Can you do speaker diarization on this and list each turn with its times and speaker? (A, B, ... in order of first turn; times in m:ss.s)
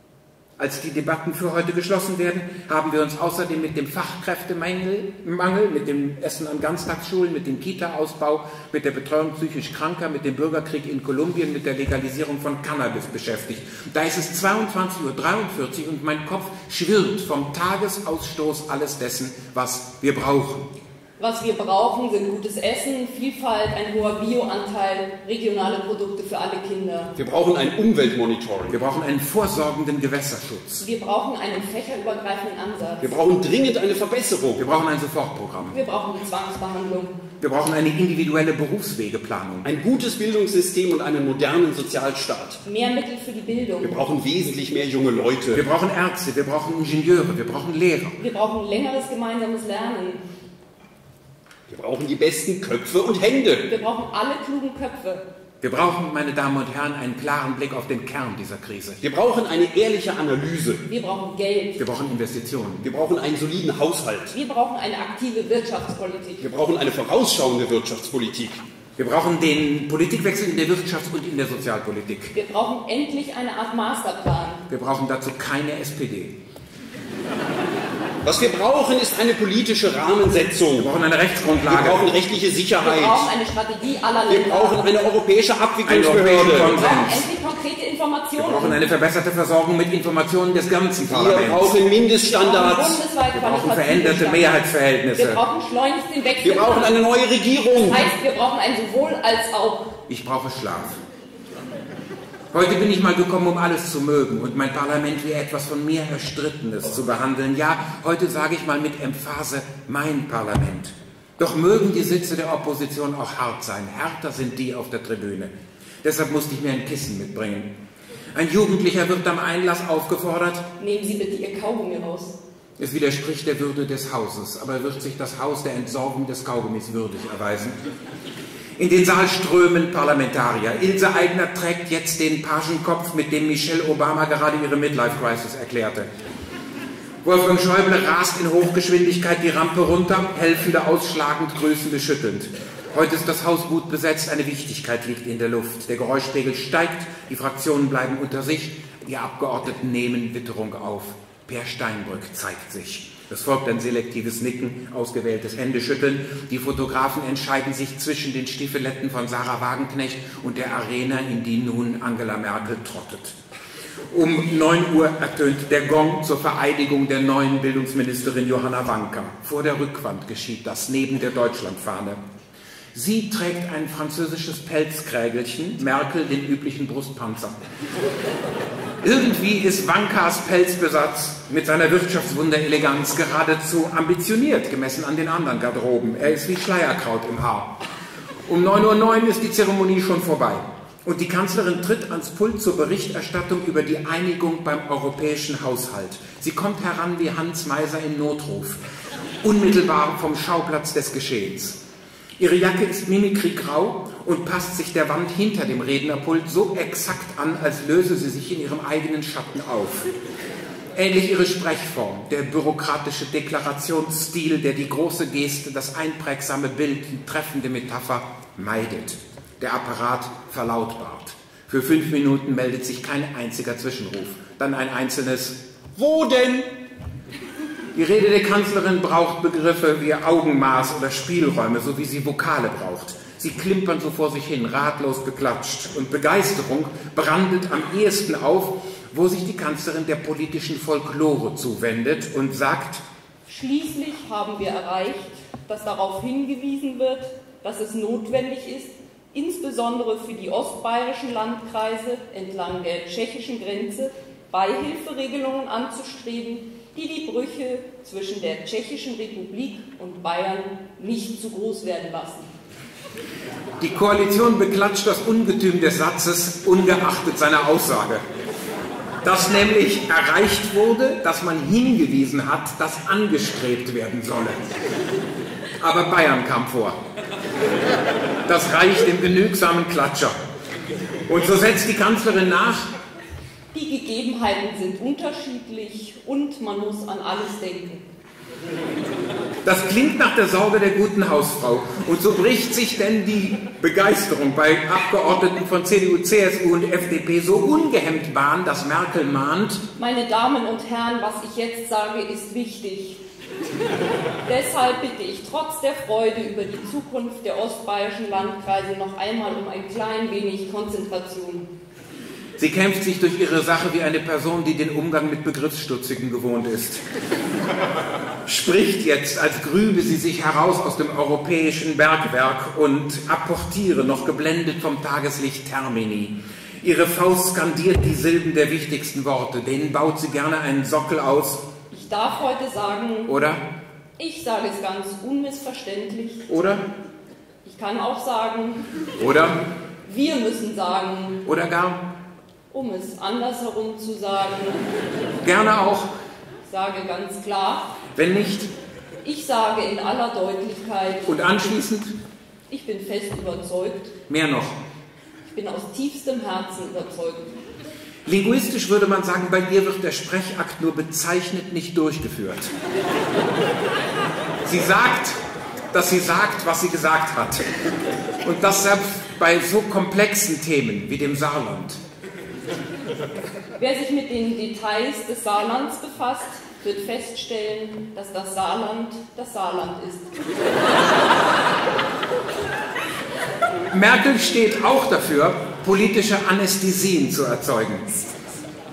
0:00.6-0:20.6 A
0:21.2-0:27.1 B
0:27.2-0:28.8 C
0:28.7-0:30.9 A
0:30.8-0:33.2 B
0:33.0-0:34.6 C
0:34.6-0:35.8 A
0:35.7-0:37.2 B
0:37.4-0:39.7 A
0:39.6-0:42.6 C
0:42.6-0:44.0 B
0:43.8-0:45.6 C
0:45.5-0:48.2 A
0:48.2-0:50.2 B
0:51.7-0:53.7 C
0:53.6-0:55.2 B
0:55.6-0:59.0 A
0:59.0-1:00.8 C
1:00.9-1:01.8 B
1:01.8-1:02.9 A
1:02.8-1:04.4 C
1:04.3-1:06.4 B
1:06.4-1:08.6 C
1:09.0-1:12.3 A
1:12.4-1:14.6 B
1:14.7-1:16.4 A
1:18.2-1:20.9 C
1:20.8-1:22.1 A
1:21.7-1:23.3 C
1:22.8-1:24.8 B
1:24.3-1:26.8 C
1:25.9-1:27.3 A
1:26.6-1:28.8 B
1:28.4-1:31.8 A
1:31.1-1:33.0 C
1:32.2-1:34.6 B
1:33.3-1:35.4 A
1:35.2-1:36.9 B
1:36.4-1:38.1 C
1:37.8-1:39.9 B
1:40.1-1:41.0 A
1:42.5-1:55.5 A
1:56.0-1:57.7 A
1:58.4-2:00.6 A
2:00.8-2:02.4 B
2:02.8-2:07.8 A
2:08.8-2:16.1 A
2:17.2-2:43.4 A
2:44.1-2:52.2 A
2:52.9-2:57.6 A
2:59.0-3:07.8 A
3:08.5-3:18.8 A
3:19.4-3:21.8 A
3:22.4-3:30.1 A
3:31.0-3:45.6 A
3:46.0-3:46.7 C
3:48.0-4:03.0 A
4:03.5-4:22.5 B
4:23.8-4:28.2 A
4:29.2-4:34.7 A
4:35.8-4:37.0 A
4:38.5-4:40.4 A
4:41.3-4:42.9 A
4:43.7-4:48.1 B
4:49.6-4:59.8 A
5:00.0-5:03.2 B
5:04.5-5:11.7 B
5:12.6-5:17.0 A
5:18.5-5:31.6 A
5:31.9-5:33.4 B
5:33.3-5:33.6 A
5:34.2-5:36.5 B
5:36.5-5:36.8 A
5:37.6-5:38.9 B
5:39.2-5:39.6 A
5:40.0-5:41.4 B
5:41.5-5:42.0 A
5:42.7-5:44.9 B
5:45.4-5:46.1 A
5:46.7-5:48.0 B
5:48.2-5:48.7 A
5:49.2-5:51.3 B
5:51.3-5:52.1 A
5:52.7-5:54.1 B
5:54.3-5:54.8 A
5:55.5-5:57.5 B
5:58.3-6:02.7 A
6:04.6-6:05.4 A
6:05.9-6:07.6 A
6:08.4-6:12.0 A
6:13.8-6:20.4 B
6:23.9-6:28.2 A